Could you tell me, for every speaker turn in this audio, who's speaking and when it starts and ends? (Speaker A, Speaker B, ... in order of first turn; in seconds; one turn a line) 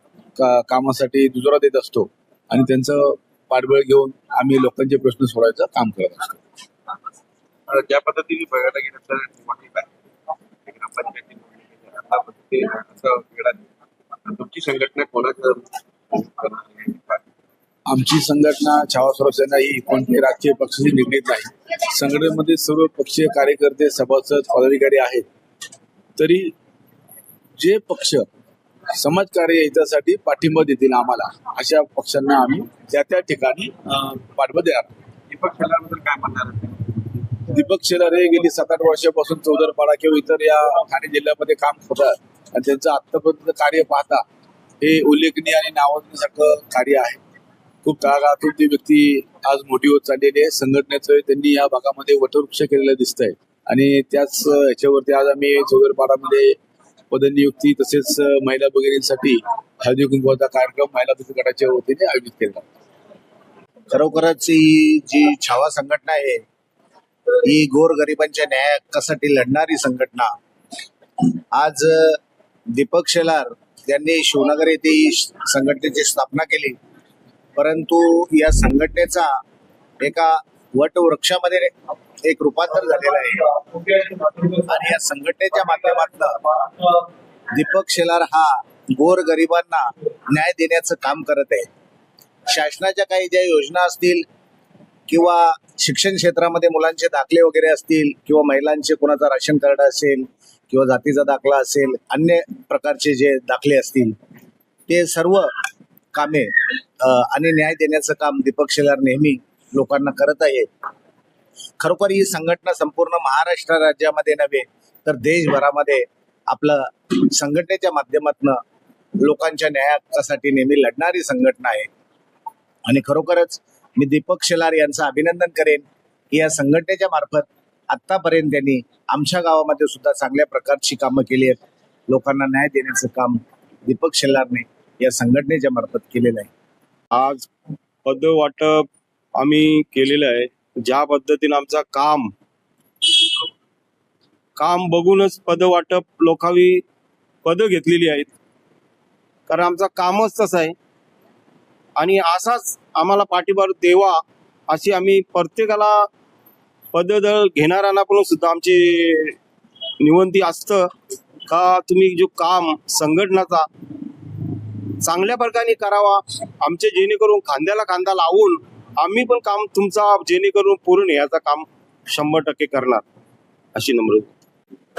Speaker A: 0.3-6.4
Speaker B: 7.7-9.9
Speaker B: 10.7-13.7
Speaker B: 14.2-17.2
Speaker A: 17.9-25.2
Speaker A: 26.2-26.5
Speaker A: 27.6-28.2
Speaker A: 28.9-34.9
Speaker B: 35.3-37.4
Speaker A: 37.5-44.2
Speaker A: 44.8-47.2
Speaker A: 47.8-56.5
Speaker A: 57.1-62.6
Speaker C: 63.9-66.4
Speaker C: 67.4-70.3
Speaker C: 71.2-72.2
Speaker C: 72.7-76.8
Speaker C: 77.5-79.3
Speaker C: 80.0-83.5
Speaker C: 84.5-86.3
Speaker C: 87.5-91.7
Speaker C: 92.5-94.2
Speaker C: 95.1-104.1
Speaker C: 104.9-105.5
Speaker C: 106.1-106.5
Speaker C: 107.0-110.7
Speaker C: 111.8-118.6
Speaker C: 119.2-121.9
Speaker C: 122.8-131.6
Speaker C: 132.1-136.5
Speaker D: 137.2-137.4
Speaker D: 138.1-138.8
Speaker D: 139.4-142.3
Speaker D: 144.6-146.8
Speaker D: 147.4-148.3
Speaker D: 149.5-150.7
Speaker D: 152.0-154.2
Speaker D: 154.7-155.9
Speaker D: 156.9-159.3
Speaker D: 160.0-160.8
Speaker D: 161.5-163.6
Speaker D: 165.0-173.0
Speaker D: 173.8-174.3